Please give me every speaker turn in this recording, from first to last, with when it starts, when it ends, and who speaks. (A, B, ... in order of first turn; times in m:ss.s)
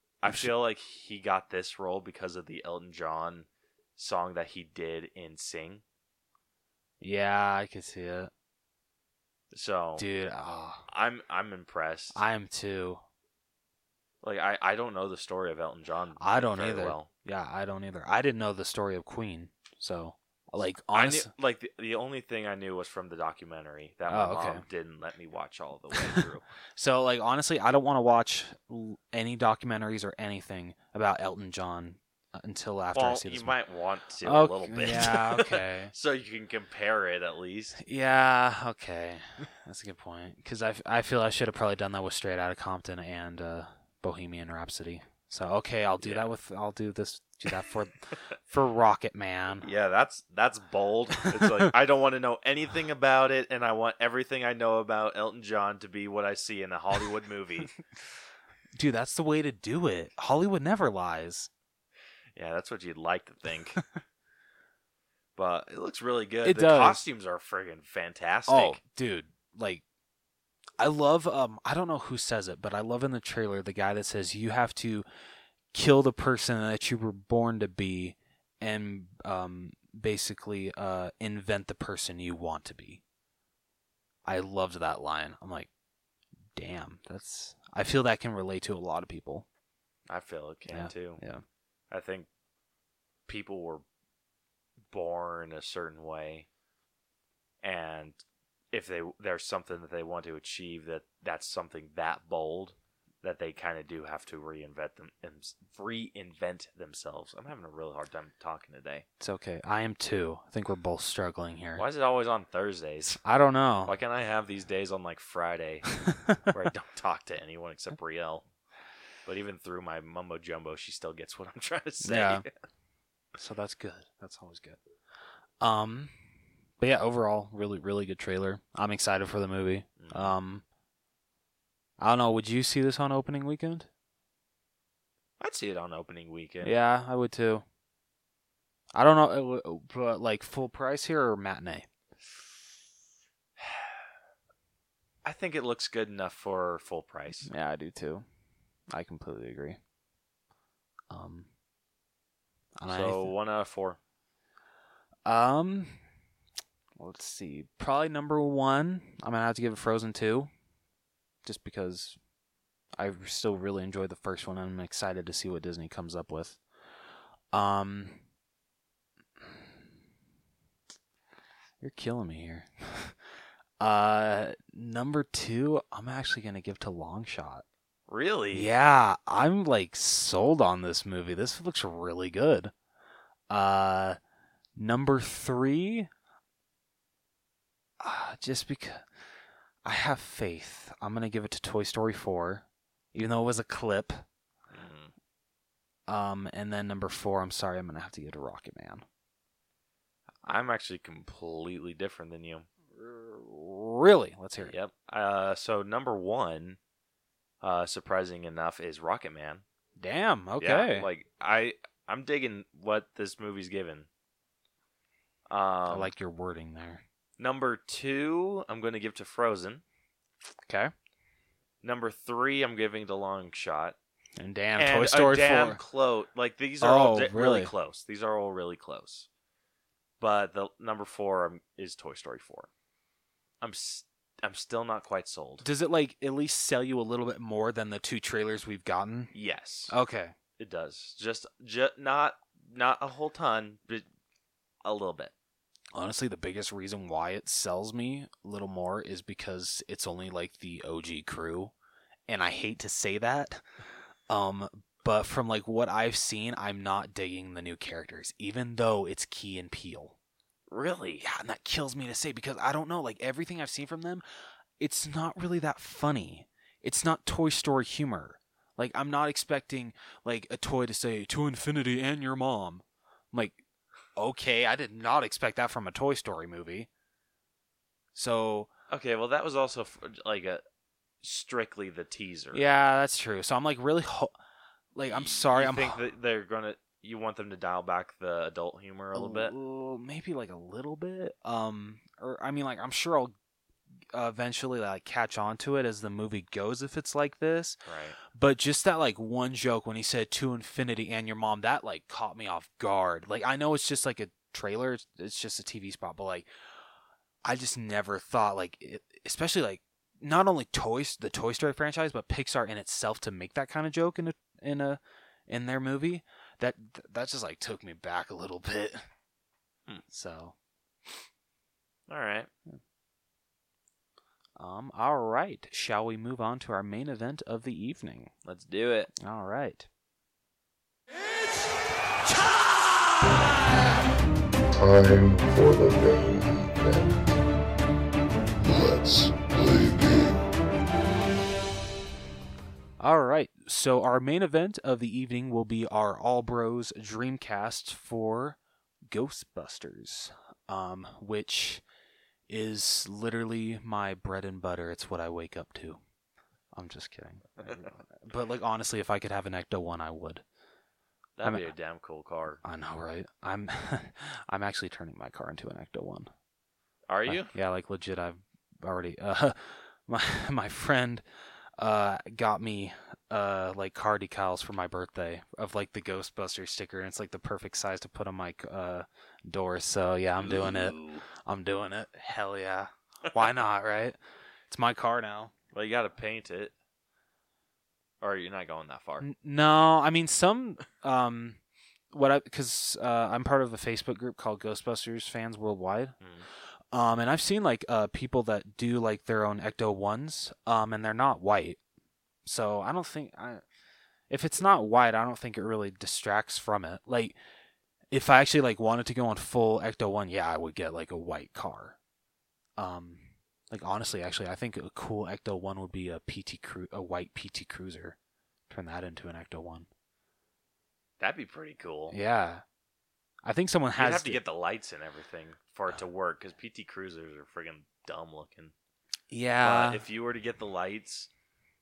0:00.2-0:05.8 A
0:07.0-0:08.3 B
0:09.5-0:10.1 A
0:10.0-0:10.8 B
0:10.9-0:12.2 A
0:12.1-0:13.0 B
0:14.2-0:17.1 A
0:16.2-0:21.3 B
0:20.9-0:26.4 A
0:24.1-0:24.6 B
0:26.0-0:26.2 B
0:26.8-0:33.6 B
0:32.9-0:37.8 A
0:34.2-0:35.9 B
0:37.8-0:49.7 B
0:46.0-0:46.3 A
0:49.6-0:57.8 A
0:51.4-0:51.7 B
0:58.8-1:01.5 B
1:02.4-1:03.8 A
1:05.4-1:08.8 A
1:06.4-1:07.1 B
1:08.5-1:09.8 B
1:10.8-1:15.0 B
1:15.7-1:23.0 B
1:24.2-1:25.7 B
1:26.6-1:29.5 B
1:30.1-1:31.2 A
1:30.7-1:31.4 B
1:31.9-1:32.3 A
1:33.3-1:33.8 A
1:34.9-1:36.5 A
1:37.6-1:38.2 A
1:38.7-1:49.0 A
1:49.2-1:51.8 B
1:51.8-1:53.2 A
1:53.2-1:54.0 B
1:53.9-1:55.9 A
1:56.1-1:56.4 B
1:56.5-1:58.5 A
1:59.3-2:02.5 A
2:02.0-2:02.4 B
2:03.4-2:04.8 B
2:05.6-2:06.1 B
2:06.8-2:10.6 B
2:10.0-2:10.4 A
2:12.0-2:13.9 B
2:15.4-2:16.8 A
2:16.6-2:17.6 B
2:19.0-2:21.9 B
2:23.6-2:24.0 A
2:25.2-2:27.5 A
2:27.5-2:28.2 B
2:28.9-2:29.8 B
2:31.1-2:31.5 B
2:32.8-2:33.3 B
2:32.9-2:34.0 A
2:35.3-2:36.0 B
2:37.0-2:40.5 B
2:41.4-2:42.2 B
2:43.0-2:46.6 B
2:47.5-2:48.2 B
2:51.8-2:53.2 B
2:53.8-2:57.6 B
2:58.1-2:58.7 A
2:58.5-3:02.7 B
3:03.5-3:04.2 B
3:04.8-3:06.1 B
3:08.0-3:09.0 B
3:09.8-3:14.2 B
3:14.7-3:15.1 A
3:16.1-3:19.0 B
3:20.4-3:22.7 A
3:23.0-3:24.8 B
3:24.6-3:26.8 A
3:27.6-3:29.6 A
3:30.0-3:31.1 B
3:30.6-3:34.1 A
3:35.5-3:36.1 A
3:35.9-3:37.0 B
3:37.4-3:39.8 A
3:40.7-3:40.9 B
3:41.8-3:44.0 A
3:44.4-3:45.8 B
3:44.8-3:49.3 A
3:46.8-3:47.7 B
3:50.2-3:52.7 A
3:53.6-3:55.6 A
3:55.6-3:59.3 B
3:59.3-3:59.9 A
3:59.9-4:00.3 B
4:00.6-4:04.1 A
4:04.8-4:05.3 A
4:06.0-4:11.7 B
4:12.3-4:13.6 B
4:14.3-4:20.2 B
4:20.7-4:21.2 A
4:21.2-4:24.2 B
4:24.8-4:33.6 B
4:34.2-4:36.9 B
4:38.2-4:38.7 B
4:38.9-4:40.6 A
4:41.2-4:42.7 A
4:42.5-4:44.3 B
4:45.0-4:46.0 B
4:45.1-4:49.5 A
4:49.1-4:53.3 B
4:54.1-5:06.5 B
4:57.9-4:58.2 A
5:07.4-5:19.0 B
5:20.1-5:20.6 B
5:22.1-5:22.5 A
5:24.6-5:28.3 B
5:28.4-5:29.1 A
5:29.2-5:29.9 B
5:34.8-5:37.2 C
5:38.6-5:40.4 C
5:43.0-5:48.6 B
5:49.1-5:51.8 B
5:52.5-5:56.0 B
5:56.7-6:00.4 B
6:01.4-6:02.6 A
6:02.6-6:06.3 B
6:07.1-6:07.5 A
6:07.3-6:11.2 B
6:11.8-6:24.2 B
6:20.4-6:21.3 A
6:24.7-6:25.5 B
6:25.7-6:26.7 A
6:28.2-6:29.3 A
6:29.2-6:31.6 B
6:32.1-6:36.2 B
6:36.2-6:36.5 A
6:36.9-6:41.8 B
6:42.4-6:43.6 B
6:44.3-6:47.4 B
6:48.1-6:52.0 B
6:52.8-6:58.2 B
6:58.7-6:59.9 B
7:01.2-7:02.2 A
7:02.1-7:02.6 B
7:03.4-7:04.4 B
7:04.0-7:08.7 A
7:09.3-7:10.0 B
7:09.6-7:11.3 A